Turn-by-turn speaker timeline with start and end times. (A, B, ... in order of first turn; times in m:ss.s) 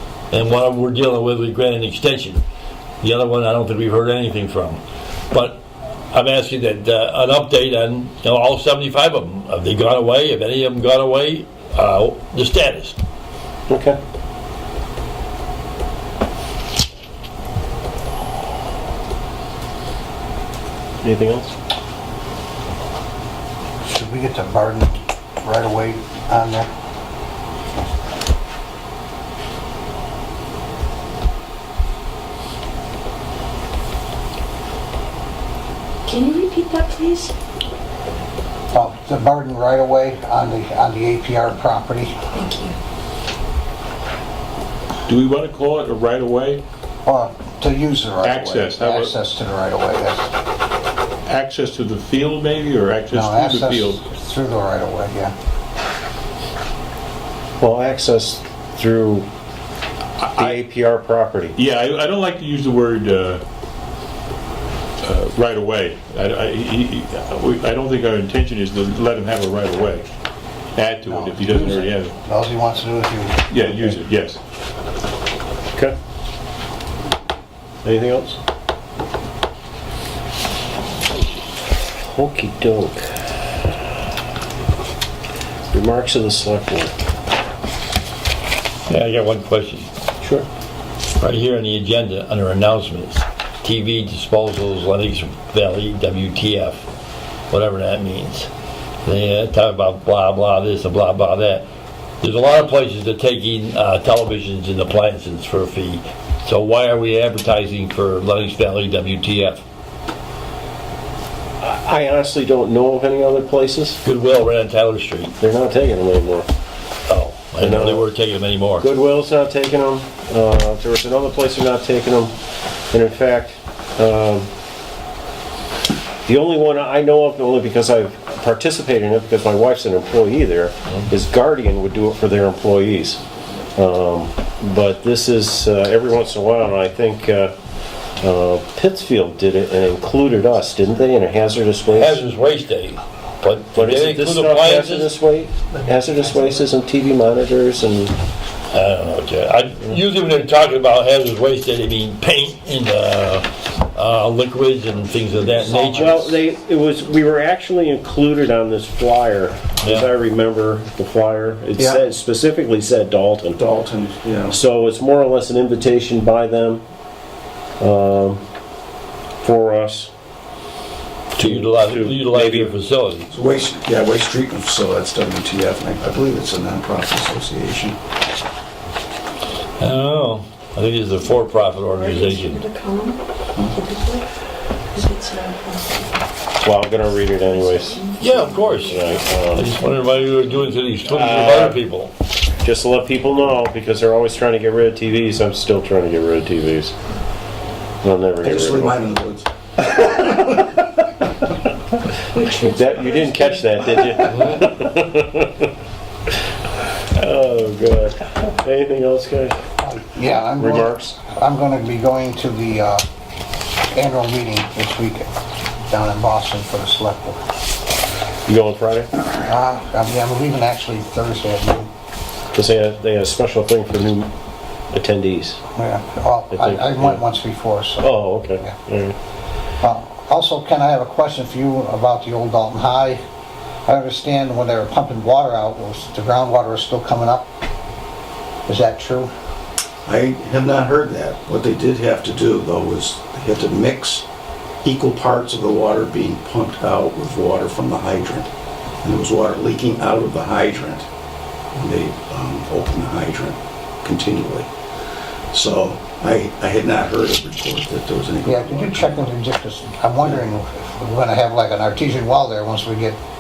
0:00.3-0:02.4 A
0:03.0-0:04.8 A
0:05.3-0:13.0 A
0:13.7-0:14.0 B
0:21.0-0:21.6 B
0:23.9-0:26.7 C
0:36.1-0:37.3 D
0:38.7-0:42.1 C
0:42.4-0:42.8 D
0:45.1-0:46.6 E
0:47.0-0:50.3 C
0:48.2-0:49.2 E
0:51.3-0:54.0 E
0:53.1-0:55.3 C
0:57.6-0:59.3 B
1:00.2-1:00.6 E
1:00.4-1:01.6 B
1:01.6-1:03.4 E
1:05.0-1:10.1 E
1:10.8-1:12.2 E
1:11.1-1:14.0 C
1:13.5-1:14.4 E
1:17.8-1:18.4 B
1:21.8-1:23.3 B
1:25.7-1:27.0 B
1:28.9-1:29.9 A
1:31.2-1:36.8 A
1:37.5-1:38.5 A
1:39.0-1:41.7 A
1:42.2-1:49.6 A
1:51.6-1:54.0 B
1:54.0-1:55.4 A
1:55.4-1:56.5 B
1:57.1-1:58.9 A
1:57.6-1:58.1 B
1:58.8-2:02.4 B
2:02.9-2:04.5 B
2:06.3-2:13.2 B
2:13.8-2:17.6 B
2:18.2-2:22.2 B
2:21.9-2:25.1 A
2:23.8-2:28.2 B
2:28.7-2:36.3 A
2:35.6-2:35.9 C
2:35.8-2:43.6 B
2:39.8-2:40.1 A
2:43.5-2:44.6 F
2:44.5-2:46.8 B
2:47.8-2:48.4 B
2:49.4-2:50.1 B
2:51.4-2:52.7 B
2:51.4-2:53.3 A
2:53.3-2:58.0 F
2:59.8-3:02.6 A
3:01.2-3:04.3 D
3:04.9-3:06.3 D
3:06.6-3:08.1 B
3:07.3-3:10.8 D
3:08.2-3:12.1 A
3:08.8-3:09.8 B
3:11.1-3:11.7 B
3:11.3-3:11.6 E
3:12.6-3:17.0 B
3:18.0-3:19.0 B
3:18.4-3:19.5 F
3:20.2-3:20.5 B
3:22.3-3:23.7 D
3:22.6-3:25.7 B
3:27.1-3:29.6 B
3:29.8-3:33.0 C
3:30.6-3:31.1 B
3:33.9-3:35.3 C
3:35.9-3:37.4 C
3:38.5-3:39.1 B
3:39.4-3:41.9 C
3:42.5-3:44.3 B
3:44.9-3:45.6 B
3:45.8-3:48.1 C
3:46.5-3:47.2 B
3:48.0-3:49.2 B
3:49.8-3:53.2 C
3:53.9-3:57.5 C
3:58.7-3:59.3 C
4:00.1-4:04.2 F
4:04.8-4:08.5 F
4:09.0-4:11.1 F
4:11.8-4:14.7 F
4:15.5-4:19.3 F
4:18.4-4:23.2 C